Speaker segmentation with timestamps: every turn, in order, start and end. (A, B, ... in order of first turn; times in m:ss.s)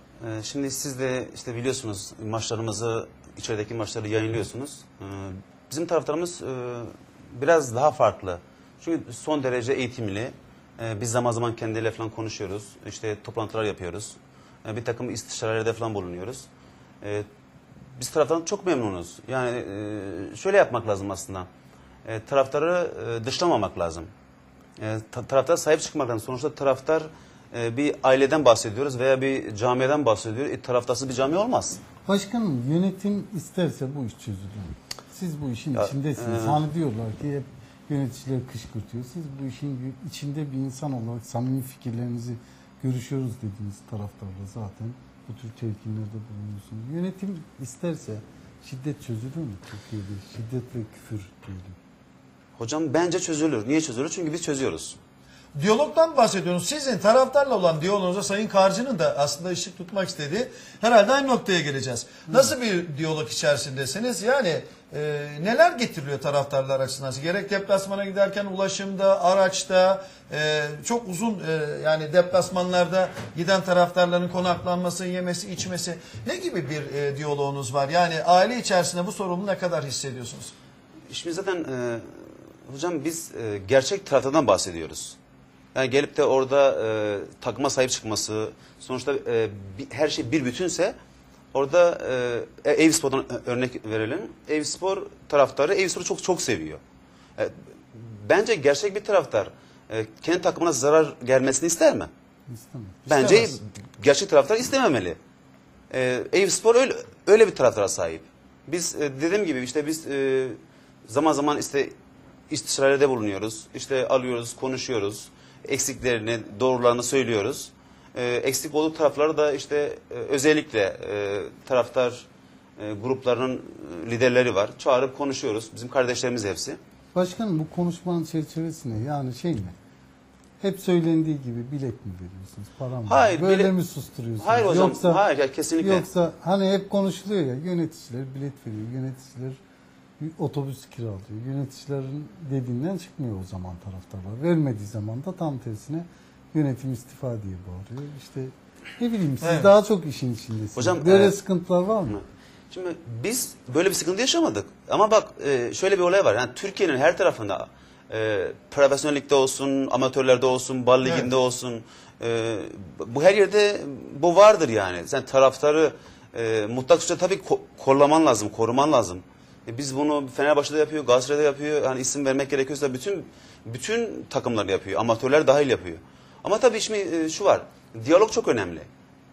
0:00.2-0:16.5 A
0:17.0-0:17.3 A
0:18.0-0:21.5 A
0:22.0-0:24.1 A
0:24.8-0:31.8 A
0:32.0-0:51.8 B
0:35.7-0:36.7 A
0:52.6-0:55.0 A
0:55.6-1:20.5 C
1:21.1-1:25.2 A
1:25.7-1:31.0 A
1:31.5-1:36.8 A
1:37.4-1:42.1 A
1:42.5-1:43.6 B
1:43.1-1:45.2 A
1:45.9-1:52.0 A
1:52.5-2:02.3 A
2:02.8-2:06.8 A
2:07.1-2:09.8 B
2:10.6-2:15.2 B
2:13.1-2:13.7 A
2:14.4-2:16.1 A
2:15.8-2:19.6 B
2:20.2-2:32.2 B
2:29.4-2:29.7 C
2:30.7-2:31.4 A
2:32.1-2:58.9 A
2:41.0-2:41.3 C